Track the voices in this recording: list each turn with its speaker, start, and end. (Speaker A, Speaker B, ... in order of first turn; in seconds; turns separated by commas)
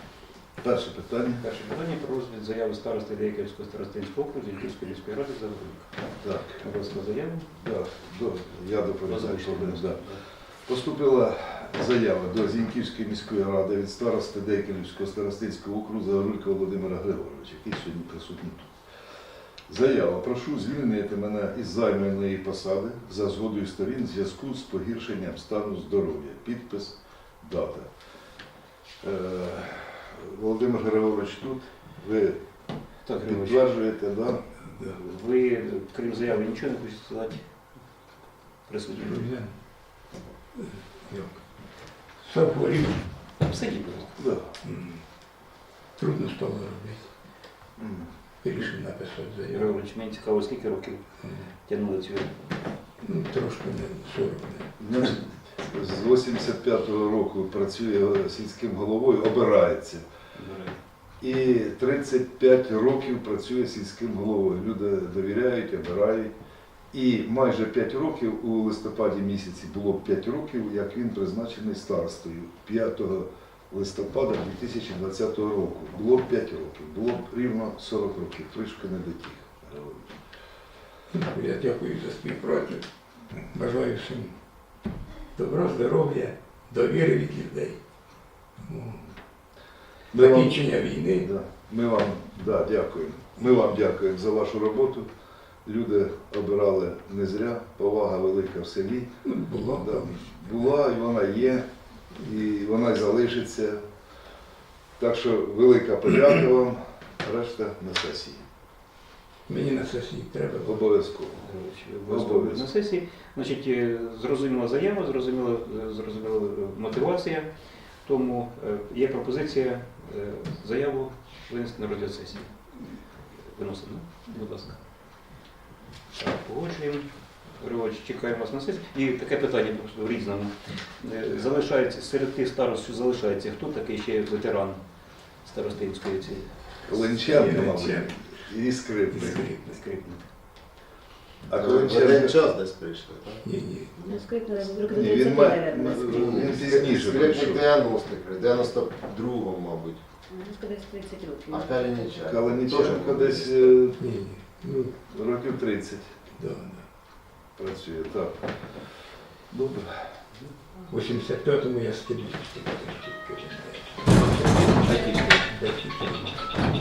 Speaker A: 0.6-1.4, Speaker B: 1.4-7.5, Speaker A: 6.2-6.7, Speaker A: 7.6-10.1, Speaker B: 9.1-10.2, Speaker A: 10.7-18.8, Speaker A: 19.7-27.9, Speaker A: 29.0-32.4, Speaker B: 33.0-33.6, Speaker A: 33.2-34.5, Speaker B: 34.7-37.6, Speaker B: 38.6-39.3, Speaker C: 39.0-40.0, Speaker C: 40.6-43.0, Speaker B: 43.4-44.2, Speaker A: 44.2-44.5, Speaker C: 44.6-45.0, Speaker C: 46.0-47.1, Speaker A: 47.8-48.1, Speaker C: 48.4-49.7, Speaker B: 49.5-51.0, Speaker B: 51.6-52.4, Speaker C: 53.0-54.7, Speaker A: 54.8-60.0, Speaker B: 60.4-60.8, Speaker A: 61.2-66.3, Speaker A: 66.9-80.1, Speaker C: 81.1-82.8, Speaker C: 83.4-84.4, Speaker C: 85.3-87.8, Speaker C: 88.6-89.1, Speaker A: 90.1-95.1, Speaker C: 90.1-91.3, Speaker A: 95.7-99.1, Speaker C: 99.2-100.2, Speaker A: 99.7-103.8, Speaker A: 105.0-108.4, Speaker C: 109.5-110.8, Speaker A: 110.6-111.5, Speaker B: 111.4-122.6, Speaker A: 112.1-112.7, Speaker B: 123.3-124.8, Speaker B: 126.1-136.6, Speaker A: 136.8-139.5, Speaker C: 137.1-138.3, Speaker C: 139.1-139.8, Speaker B: 139.6-140.3, Speaker A: 141.5-142.4, Speaker D: 141.5-143.5, Speaker C: 143.4-144.0, Speaker E: 144.0-146.9, Speaker A: 144.8-147.7, Speaker D: 146.1-150.0, Speaker E: 150.3-152.7, Speaker D: 151.5-153.8, Speaker A: 152.2-154.0, Speaker C: 154.0-154.9, Speaker A: 155.1-156.1, Speaker C: 156.4-156.9, Speaker A: 157.6-158.6, Speaker A: 159.5-160.1, Speaker C: 160.9-166.4, Speaker B: 164.5-165.5